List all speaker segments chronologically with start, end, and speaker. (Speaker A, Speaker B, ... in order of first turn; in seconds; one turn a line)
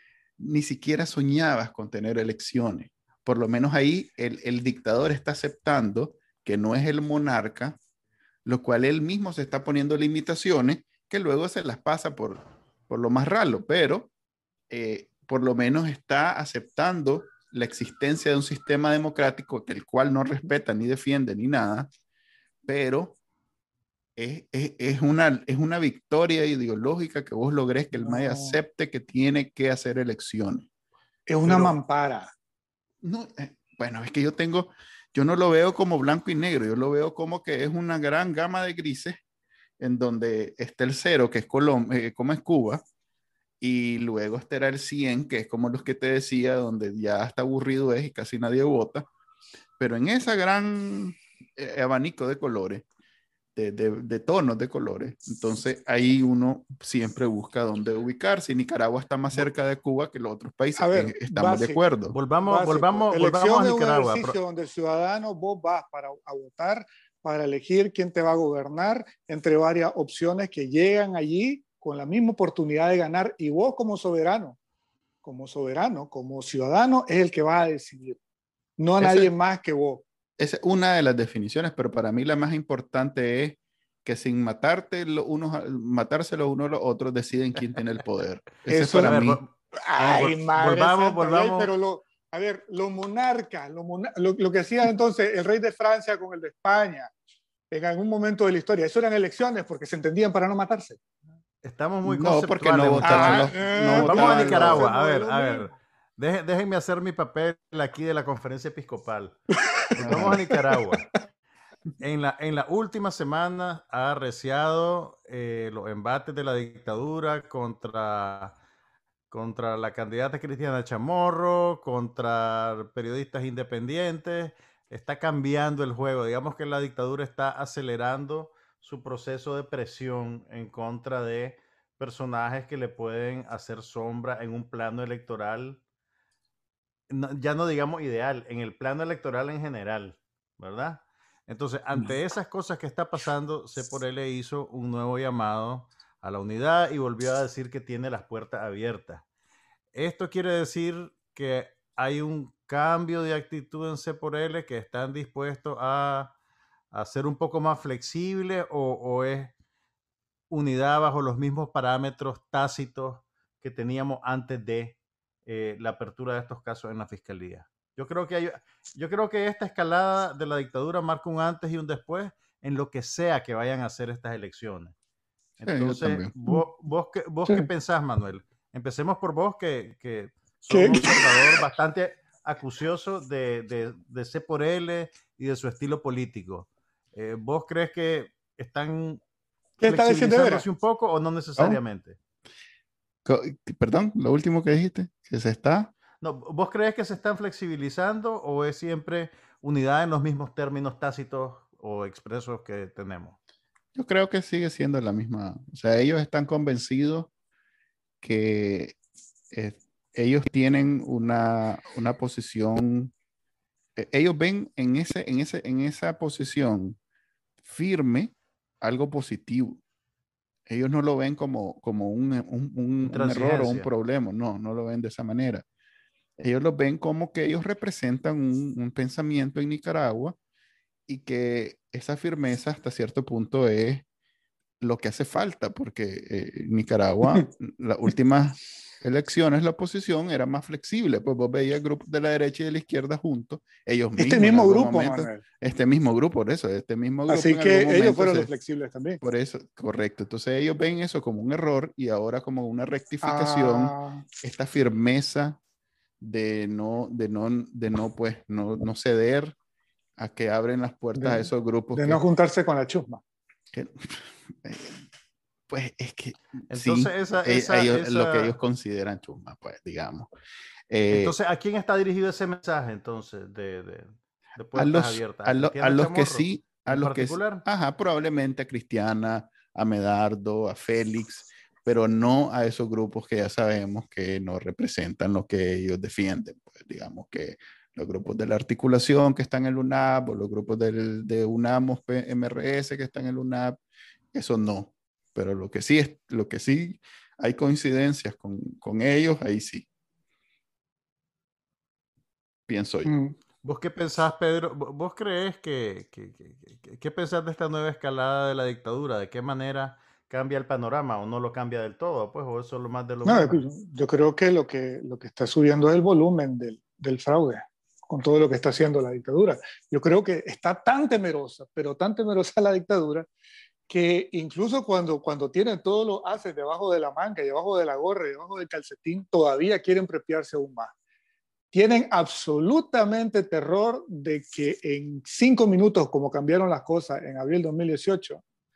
Speaker A: 0.4-7.8
Speaker A: 8.5-14.1
Speaker A: 14.7-21.9
Speaker A: 22.6-23.2
Speaker A: 24.2-30.7
Speaker B: 27.9-28.6
Speaker B: 31.3-32.3
Speaker A: 31.4-31.8
Speaker A: 33.0-39.2
Speaker A: 39.8-42.8
Speaker A: 43.6-49.1
Speaker A: 49.8-52.9
Speaker A: 53.6-62.2
Speaker B: 60.8-61.8
Speaker C: 62.1-64.4
Speaker B: 62.5-74.6
Speaker B: 75.2-78.2
Speaker B: 78.8-80.0
Speaker A: 79.0-79.3
Speaker A: 80.4-89.4
Speaker B: 88.7-97.1
Speaker C: 88.9-91.7
Speaker B: 97.7-101.0
Speaker C: 101.6-109.4
Speaker A: 102.0-104.8
Speaker B: 103.0-105.7
Speaker B: 109.7-110.7
Speaker C: 109.9-111.1
Speaker A: 110.0-110.4
Speaker C: 112.0-118.5
Speaker C: 119.3-135.8
Speaker C: 137.1-149.2
Speaker C: 149.9-156.3
Speaker C: 156.9-159.5
Speaker C: 160.5-174.9
Speaker C: 175.6-189.2
Speaker A: 175.7-176.3
Speaker B: 180.7-181.6
Speaker B: 189.8-190.7
Speaker C: 189.8-192.2
Speaker A: 193.3-195.9
Speaker C: 196.2-203.4
Speaker A: 203.9-207.3
Speaker A: 208.2-209.0
Speaker A: 209.5-213.1
Speaker A: 214.0-217.0
Speaker A: 217.6-219.8
Speaker A: 220.7-225.7
Speaker C: 223.1-223.9
Speaker A: 226.4-230.4
Speaker A: 231.1-234.0
Speaker A: 234.8-248.5
Speaker B: 244.2-245.4
Speaker B: 247.3-249.2
Speaker A: 249.2-255.6
Speaker B: 253.2-254.2
Speaker A: 256.2-259.6
Speaker A: 260.2-262.2
Speaker B: 261.2-263.2
Speaker A: 263.7-265.0
Speaker A: 265.7-270.3
Speaker C: 266.7-268.6
Speaker A: 270.9-271.4
Speaker C: 271.1-277.6
Speaker A: 274.8-293.8
Speaker A: 294.3-299.9
Speaker A: 302.7-303.1
Speaker B: 303.1-303.4
Speaker C: 303.6-313.6
Speaker B: 313.2-323.3
Speaker B: 323.9-330.9
Speaker B: 331.7-338.4